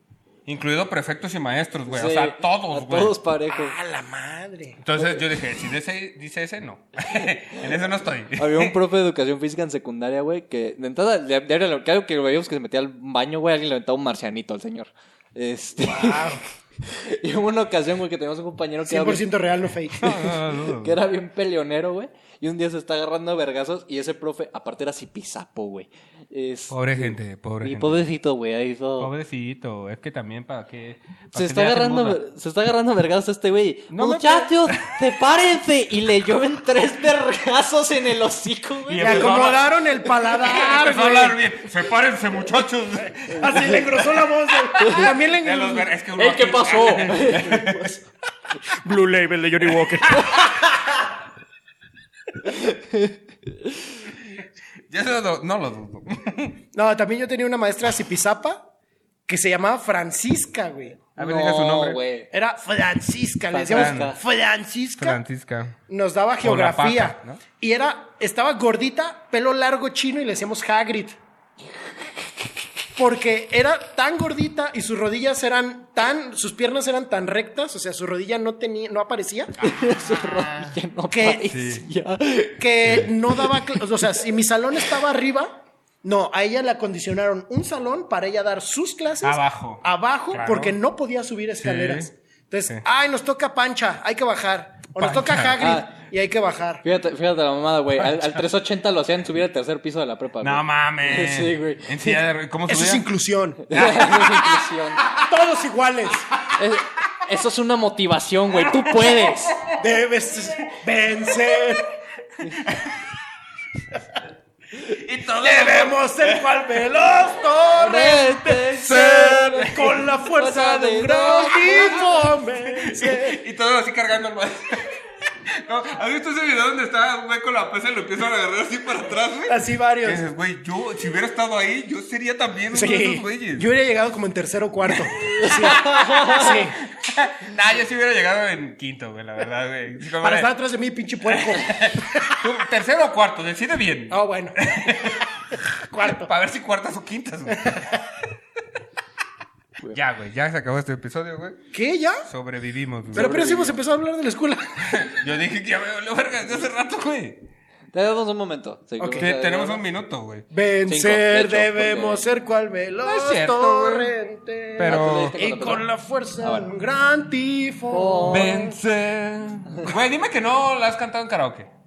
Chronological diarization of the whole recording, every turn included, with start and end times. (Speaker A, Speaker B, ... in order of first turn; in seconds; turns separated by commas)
Speaker A: 0.5-3.1, Speaker B: 1.9-3.8, Speaker C: 3.5-4.8, Speaker A: 4.8-8.8, Speaker B: 8.4-19.3, Speaker C: 15.8-16.4, Speaker C: 18.9-20.2, Speaker A: 19.9-21.0, Speaker B: 20.0-29.1, Speaker A: 26.7-28.0, Speaker A: 29.0-32.2, Speaker B: 31.3-39.4, Speaker A: 33.9-34.9, Speaker A: 38.9-44.2, Speaker C: 39.0-41.4, Speaker C: 43.3-45.9, Speaker A: 44.7-48.0, Speaker B: 44.8-45.1, Speaker B: 46.2-47.9, Speaker C: 47.3-48.0, Speaker C: 48.6-50.4, Speaker A: 49.8-50.6, Speaker B: 50.1-51.0, Speaker B: 52.4-54.0, Speaker A: 54.9-56.6, Speaker C: 56.7-58.7, Speaker C: 59.3-61.0, Speaker A: 61.2-62.0, Speaker B: 61.2-62.3, Speaker C: 62.3-65.2, Speaker B: 63.5-64.2, Speaker A: 63.6-64.1, Speaker A: 65.0-65.8, Speaker C: 65.9-71.2, Speaker A: 66.4-67.4, Speaker C: 73.0-79.5, Speaker B: 79.6-83.0, Speaker A: 79.6-80.7, Speaker C: 81.1-81.5, Speaker A: 81.5-81.8, Speaker C: 82.6-96.8, Speaker A: 89.2-90.8, Speaker A: 91.6-92.1, Speaker A: 95.0-95.6, Speaker B: 95.6-95.9, Speaker B: 96.8-102.2, Speaker A: 98.0-98.4, Speaker A: 100.4-103.1, Speaker C: 102.7-103.7, Speaker B: 103.7-105.0, Speaker A: 103.7-105.3, Speaker C: 105.2-106.3, Speaker B: 106.6-109.6, Speaker A: 108.7-109.8, Speaker C: 109.8-111.9, Speaker A: 112.6-113.0, Speaker A: 114.8-116.9, Speaker C: 115.4-123.4, Speaker B: 117.8-119.8, Speaker A: 118.8-120.0, Speaker B: 120.3-122.0, Speaker A: 121.6-133.7, Speaker C: 129.5-130.2, Speaker C: 132.7-136.8, Speaker A: 135.3-140.5, Speaker B: 135.4-136.5, Speaker C: 140.2-142.4, Speaker A: 141.3-148.1, Speaker C: 144.1-145.1, Speaker C: 145.9-146.3, Speaker C: 147.5-147.9, Speaker A: 149.9-151.6, Speaker C: 151.7-152.3, Speaker A: 152.3-153.4, Speaker C: 153.1-155.1, Speaker B: 153.1-153.8, Speaker A: 154.8-157.5, Speaker B: 157.9-159.8, Speaker C: 159.0-159.3, Speaker A: 159.2-160.5, Speaker C: 160.5-168.8, Speaker B: 160.9-162.3, Speaker A: 163.0-164.1, Speaker A: 164.8-165.3, Speaker B: 164.8-165.8, Speaker B: 166.4-166.7, Speaker B: 167.9-168.6, Speaker A: 168.3-171.7